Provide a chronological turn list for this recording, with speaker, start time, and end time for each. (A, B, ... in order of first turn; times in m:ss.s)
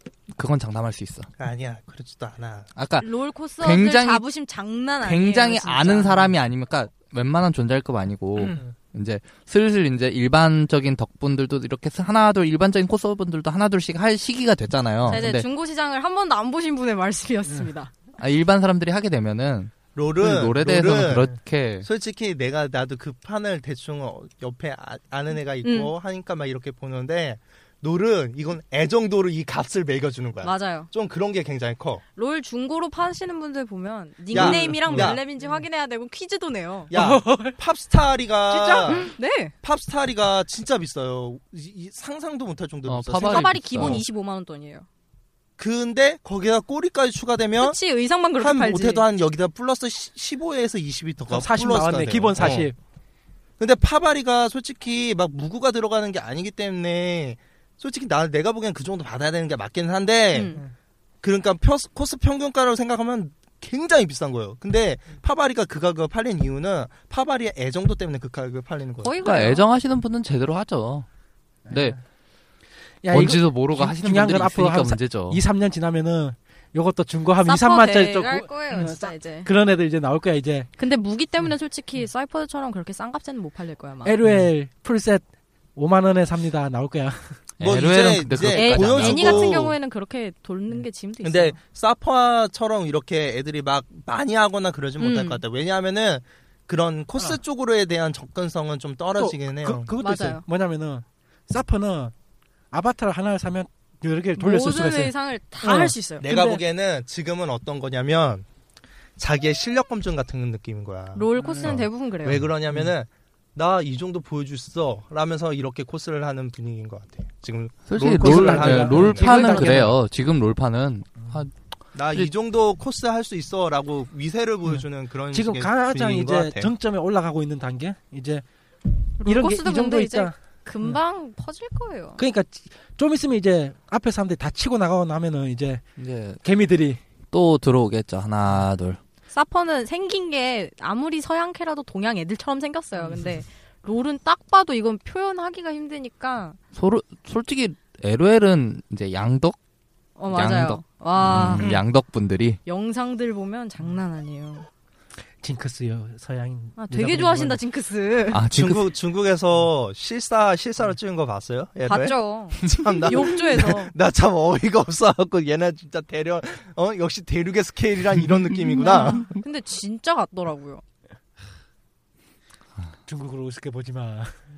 0:00.3-0:01.3 A
0:01.4-0:02.7 B
0:02.8-0:03.1 A
0:03.0-0:06.3 C
0:03.6-0:04.2 A
0:05.0-0:15.4 A
0:15.1-0:17.9 C
0:18.2-0:21.9 A
0:19.9-0:21.3 B
0:21.8-0:32.0 B
0:25.6-0:25.9 C
0:30.4-0:30.9 C
0:32.2-0:36.9 C
0:34.3-0:35.2 B
0:34.3-0:35.6 D
0:36.9-0:44.0 B
0:36.9-0:37.6 D
0:38.5-0:39.1 D
0:38.9-0:39.5 C
0:42.8-0:44.0 A
0:43.2-0:44.8 C
0:45.6-0:47.8 B
0:47.6-0:49.0 C
0:48.4-0:52.7 B
0:51.3-0:52.7 D
0:53.6-1:00.6 B
1:00.3-1:00.6 C
1:01.2-1:09.1 B
1:09.0-1:09.6 C
1:09.2-1:11.1 A
1:11.7-1:12.0 D
1:11.7-1:12.0 A
1:13.0-1:20.7 D
1:13.1-1:15.4 A
1:17.4-1:19.5 C
1:20.8-1:24.2 C
1:24.0-1:25.2 D
1:25.8-1:27.4 D
1:27.6-1:29.6 A
1:27.6-1:29.8 B
1:28.5-1:31.6 C
1:31.2-1:39.9 B
1:35.0-1:35.4 C
1:39.2-1:42.1 D
1:40.0-1:40.4 C
1:42.7-1:46.6 D
1:44.4-1:46.2 C
1:46.2-1:48.4 B
1:49.2-1:59.9 B
1:51.1-1:52.5 C
1:51.4-1:51.8 D
1:57.9-2:01.5 A
1:58.1-1:59.9 D
1:59.3-1:59.7 C
2:01.9-2:06.7 B
2:04.6-2:08.4 D
2:09.2-2:12.2 C
2:09.2-2:11.0 D
2:12.2-2:15.8 D
2:16.0-2:16.4 A
2:16.4-2:17.0 D
2:17.3-2:19.0 A
2:19.3-2:26.6 C
2:23.0-2:23.3 D
2:26.7-2:29.6 A
2:30.2-2:31.7 C
2:30.3-2:32.6 A
2:32.6-2:34.6 C
2:35.4-2:37.6 D
2:36.8-2:38.4 C
2:38.3-2:38.9 A
2:38.5-2:49.4 B
2:41.8-2:43.9 C
2:48.8-2:50.8 C
2:53.1-2:54.3 D